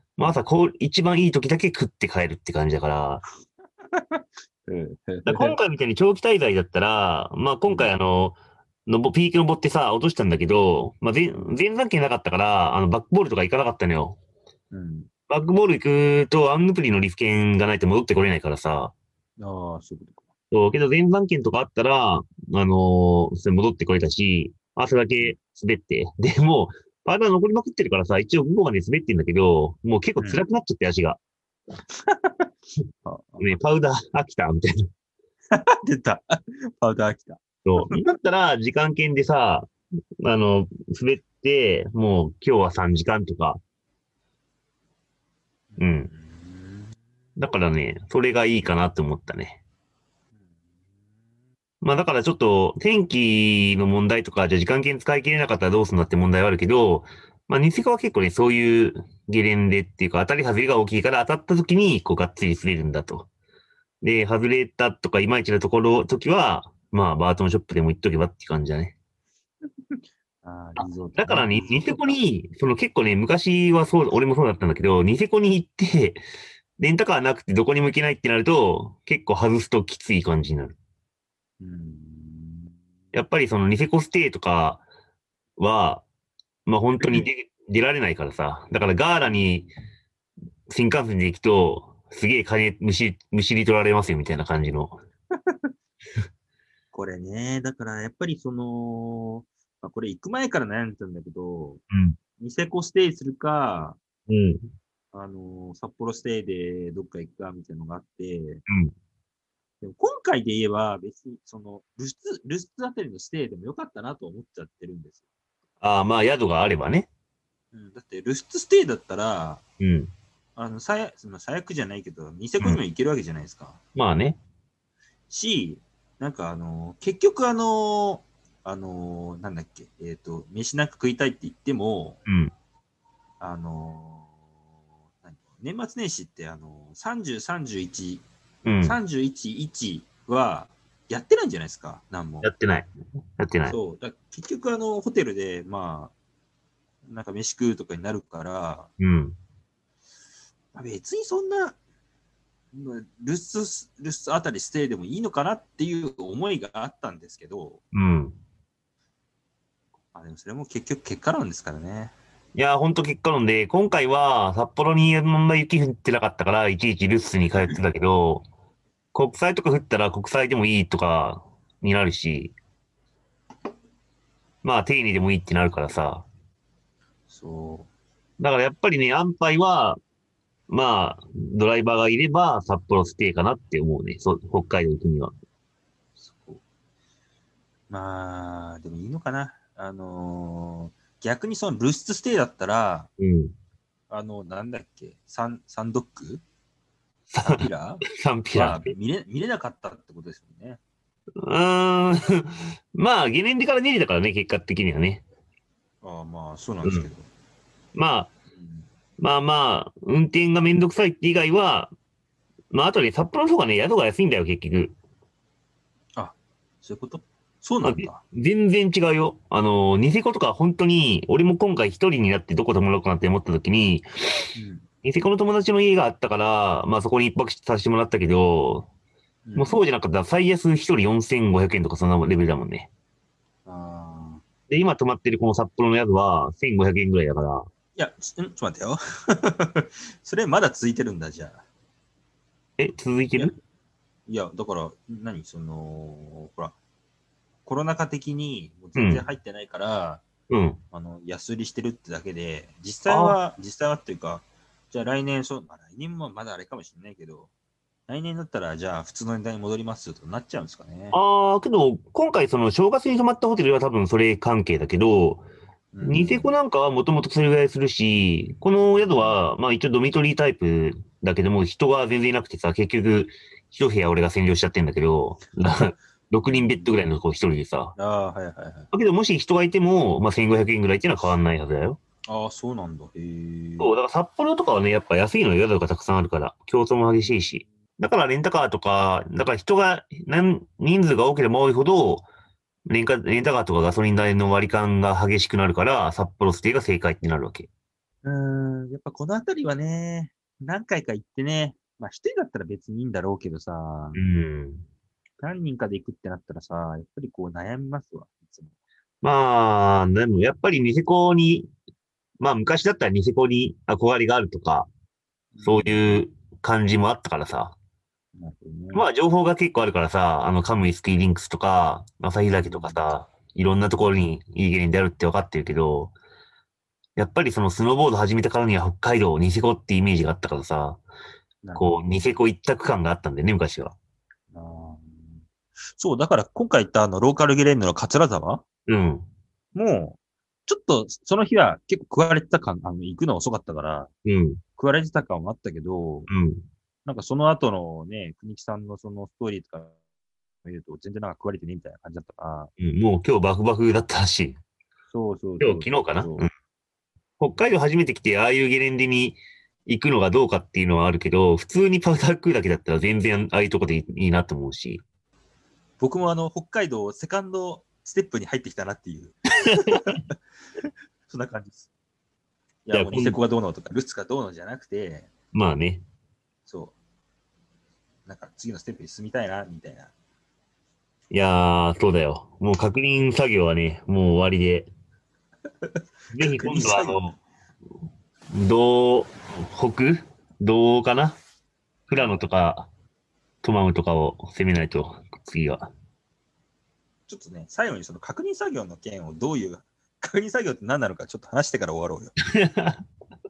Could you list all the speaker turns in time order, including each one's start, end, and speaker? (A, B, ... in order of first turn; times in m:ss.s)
0:00.2-0:03.2 A
0:03.9-0:05.6 B
0:05.3-0:08.4 A
0:07.7-0:08.0 B
0:08.9-0:14.2 A
0:11.3-0:11.6 B
0:14.7-0:15.1 B
0:15.3-0:18.9 A
0:19.4-0:20.3 B
0:20.5-0:31.2 A
0:30.2-0:30.4 B
0:31.9-0:32.5 B
0:33.0-0:33.6 B
0:33.4-0:34.8 A
0:35.5-0:37.9 B
0:37.6-0:39.7 A
0:40.2-0:43.6 A
0:45.7-0:47.0 B
0:45.8-0:46.1 A
0:47.4-0:49.6 A
0:50.3-0:50.8 B
0:51.8-1:03.3 A
1:04.0-1:08.9 A
1:09.9-1:12.1 B
1:10.8-1:16.2 A
1:16.8-1:20.8 A
1:21.6-1:22.7 B
1:23.1-1:24.8 A
1:25.6-1:26.0 A
1:26.7-1:29.7 A
1:27.0-1:27.3 B
1:30.7-1:35.0 A
1:36.9-1:41.8 B
1:41.9-1:42.2 A
1:42.4-1:44.0 B
1:44.3-1:44.6 A
1:45.1-1:48.6 B
1:48.7-1:48.9 A
1:49.8-1:55.2 B
1:55.8-1:57.1 A
1:57.7-1:59.6 B
1:59.8-2:00.1 A
2:00.6-2:03.8 B
2:04.0-2:04.4 A
2:05.3-2:12.2 B
2:12.3-2:12.5 A
2:13.4-2:14.3 B
2:15.2-2:18.2 B
2:18.6-2:19.0 A
2:18.8-2:22.5 B
2:22.4-2:23.8 A
2:23.7-2:26.1 B
2:27.0-2:28.9 B
2:29.0-2:29.4 A
2:30.7-2:31.8 B
2:32.7-2:37.8 B
2:37.9-2:38.4 A
2:40.1-2:42.1 B
2:42.6-2:48.4 A
2:49.1-2:52.6 A
2:54.6-2:56.2 A
2:57.3-2:57.9 B
2:58.4-3:00.0 A
3:00.7-3:05.3 A
3:06.2-3:06.6 B
3:07.9-3:13.1 B
3:13.2-3:13.5 A
3:14.1-3:16.4 B
3:17.3-3:17.6 A
3:17.4-3:20.8 B
3:18.2-3:18.8 A
3:21.4-3:25.2 A
3:26.0-3:27.3 B
3:26.8-3:27.1 A
3:28.0-3:28.3 A
3:28.6-3:28.9 B
3:29.2-3:31.9 A
3:32.7-3:35.0 A
3:36.2-3:38.2 B
3:37.8-3:44.5 A
3:44.6-3:44.9 B
3:45.0-3:48.9 A
3:49.5-3:49.8 B
3:49.6-3:52.9 A
3:53.7-3:54.4 B
3:54.7-3:57.7 A
3:58.0-4:01.6 B
4:02.8-4:03.6 A
4:04.3-4:06.8 B
4:07.6-4:10.2 B
4:09.0-4:09.2 A
4:10.5-4:10.8 A
4:10.9-4:17.5 B
4:13.1-4:13.4 A
4:18.1-4:21.2 B
4:21.1-4:25.4 A
4:25.9-4:26.6 B
4:26.0-4:38.0 A
4:28.9-4:29.4 B
4:36.4-4:37.2 B
4:38.0-4:38.9 B
4:38.9-4:42.0 A
4:42.3-4:44.0 B
4:43.8-4:52.3 A
4:52.9-4:57.7 A
4:58.2-5:04.2 B
5:04.2-5:04.8 A
5:05.4-5:08.7 B
5:09.2-5:11.7 A
5:12.4-5:14.9 A
5:15.5-5:16.2 B
5:15.6-5:17.8 A
5:18.4-5:19.1 B
5:18.9-5:26.2 A
5:22.6-5:23.1 B
5:27.2-5:31.0 A
5:31.6-5:32.0 B
5:31.8-5:34.0 A
5:34.5-5:35.4 B
5:36.0-5:38.6 B
5:38.9-5:39.3 A
5:39.7-5:44.1 B
5:44.2-5:44.6 A
5:44.8-5:46.3 B
5:46.3-5:46.6 A
5:47.1-5:50.0 B
5:50.6-5:52.7 B
5:52.8-5:54.6 A
5:55.1-5:56.5 B
5:55.6-5:56.5 A
5:57.4-6:05.0 A
6:06.0-6:10.2 B
6:11.3-6:11.9 B
6:12.9-6:15.3 B
6:12.9-6:13.4 A
6:15.5-6:16.0 A
6:16.7-6:17.0 B
6:18.3-6:20.1 B
6:21.3-6:24.9 A
6:26.3-6:27.4 A
6:26.4-6:27.3 B
6:28.5-6:31.4 A
6:32.1-6:32.9 A
6:33.6-6:35.9 A
6:37.3-6:42.4 B
6:42.6-6:43.0 A